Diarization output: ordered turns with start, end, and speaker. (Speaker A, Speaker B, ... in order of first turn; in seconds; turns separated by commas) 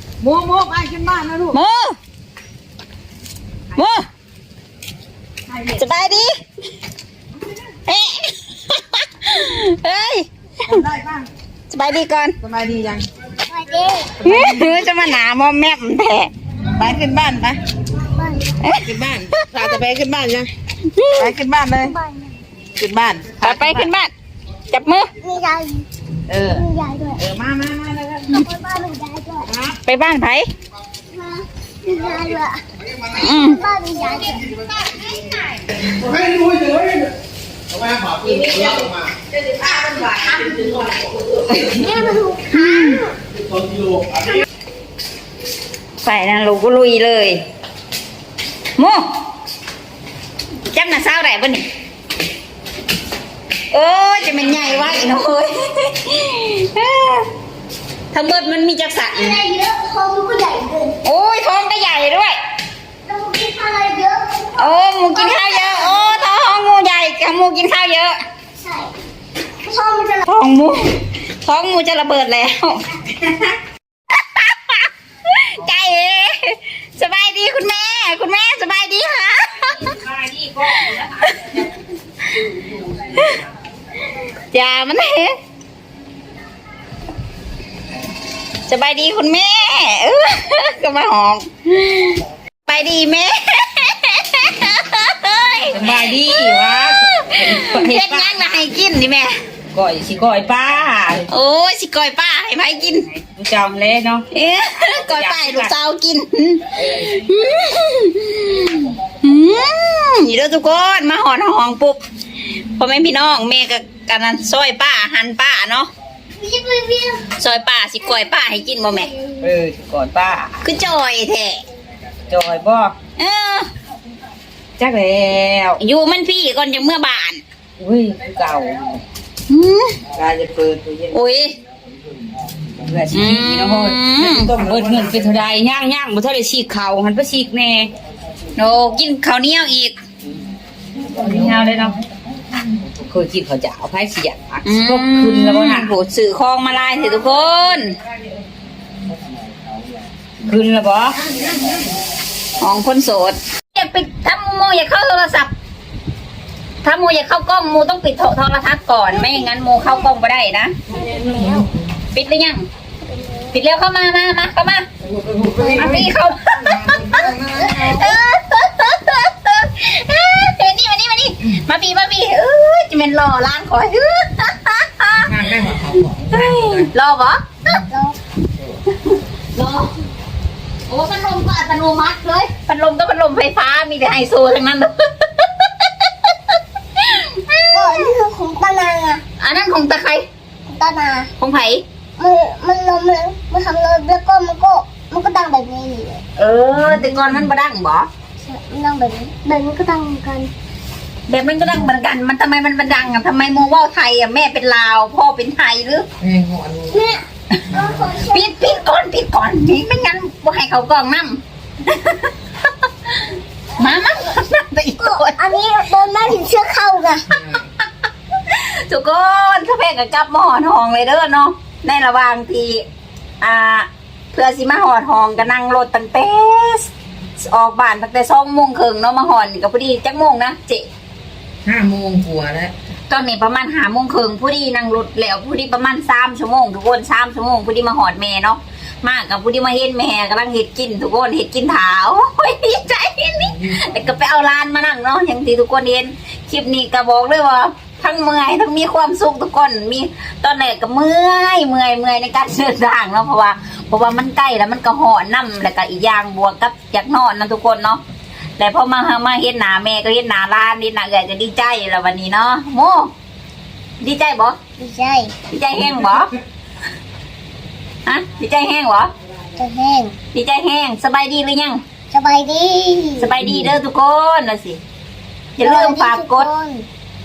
Speaker A: 0.2-1.6, Speaker B: 1.5-2.0, Speaker B: 3.7-4.1, Speaker B: 5.6-6.4, Speaker B: 7.9-10.8, Speaker A: 10.7-11.3, Speaker B: 11.7-12.4, Speaker A: 12.4-13.1, Speaker C: 13.5-14.3, Speaker B: 14.2-16.3, Speaker A: 14.2-14.9, Speaker A: 16.7-17.6, Speaker C: 18.1-18.5, Speaker B: 18.6-19.7, Speaker A: 18.7-20.5, Speaker B: 20.9-21.3, Speaker A: 21.1-21.9, Speaker C: 21.8-22.4, Speaker A: 22.8-23.9, Speaker B: 23.4-24.1, Speaker B: 24.7-25.1, Speaker C: 25.2-25.9, Speaker A: 26.3-26.6, Speaker C: 26.4-27.2, Speaker A: 27.2-28.3, Speaker C: 28.3-29.5, Speaker A: 29.5-29.8, Speaker B: 29.8-30.5, Speaker C: 31.1-35.5, Speaker B: 33.2-33.6, Speaker D: 36.3-37.1, Speaker D: 37.8-38.3, Speaker A: 38.2-41.1, Speaker C: 41.5-43.1, Speaker B: 42.5-43.0, Speaker D: 43.6-44.2, Speaker B: 46.0-47.4, Speaker B: 48.8-49.1, Speaker B: 50.7-51.6, Speaker B: 53.7-57.3, Speaker B: 58.1-59.4, Speaker C: 59.0-61.0, Speaker B: 61.0-62.4, Speaker C: 63.1-66.2, Speaker B: 64.6-68.2, Speaker C: 68.6-68.9, Speaker C: 69.6-70.2, Speaker B: 70.2-73.4, Speaker B: 74.1-79.9, Speaker A: 79.6-81.6, Speaker B: 83.1-83.4, Speaker B: 84.1-85.4, Speaker B: 88.7-99.3, Speaker A: 95.7-98.5, Speaker A: 99.7-101.3, Speaker B: 101.3-103.1, Speaker A: 103.0-105.7, Speaker B: 104.3-112.0, Speaker A: 106.8-107.3, Speaker B: 112.6-115.9, Speaker C: 116.4-117.3, Speaker B: 117.4-119.1, Speaker C: 118.0-119.5, Speaker A: 119.4-120.6, Speaker B: 120.6-121.6, Speaker A: 122.3-123.0, Speaker B: 123.2-123.7, Speaker A: 124.8-125.8, Speaker B: 125.8-127.4, Speaker A: 127.8-129.0, Speaker B: 129.5-130.0, Speaker A: 130.1-131.2, Speaker B: 131.1-131.6, Speaker A: 132.8-137.9, Speaker B: 133.1-134.5, Speaker B: 138.6-140.0, Speaker A: 141.1-142.0, Speaker A: 142.7-145.9, Speaker B: 144.6-148.0, Speaker A: 150.4-151.3, Speaker B: 152.6-155.5, Speaker B: 156.8-160.7, Speaker C: 159.1-160.1, Speaker C: 160.9-161.7, Speaker A: 160.9-161.7, Speaker B: 162.1-162.6, Speaker C: 163.1-163.6, Speaker B: 163.5-164.9, Speaker A: 165.0-168.1, Speaker C: 165.6-166.0, Speaker B: 165.8-175.5, Speaker A: 175.2-176.9, Speaker B: 176.3-177.6, Speaker C: 177.9-178.2, Speaker B: 178.9-179.9, Speaker B: 180.9-188.2, Speaker C: 187.7-189.2, Speaker B: 189.4-190.2, Speaker C: 190.7-191.3, Speaker B: 191.4-191.8, Speaker C: 192.2-196.2, Speaker B: 196.4-198.1, Speaker C: 198.4-200.5, Speaker B: 201.3-206.1, Speaker A: 206.2-207.0, Speaker C: 206.9-208.6, Speaker B: 208.2-213.2, Speaker B: 213.8-215.5, Speaker C: 215.0-217.4, Speaker B: 218.4-222.8, Speaker B: 223.4-230.9, Speaker A: 231.6-232.7, Speaker B: 233.1-258.0, Speaker A: 243.6-243.9, Speaker B: 258.6-263.1, Speaker B: 264.0-264.6, Speaker C: 264.8-265.3, Speaker B: 265.5-266.3, Speaker B: 268.1-269.1, Speaker C: 269.6-270.1, Speaker B: 270.3-271.8, Speaker C: 272.1-273.3, Speaker B: 273.2-274.8, Speaker B: 275.6-276.5, Speaker C: 275.6-276.9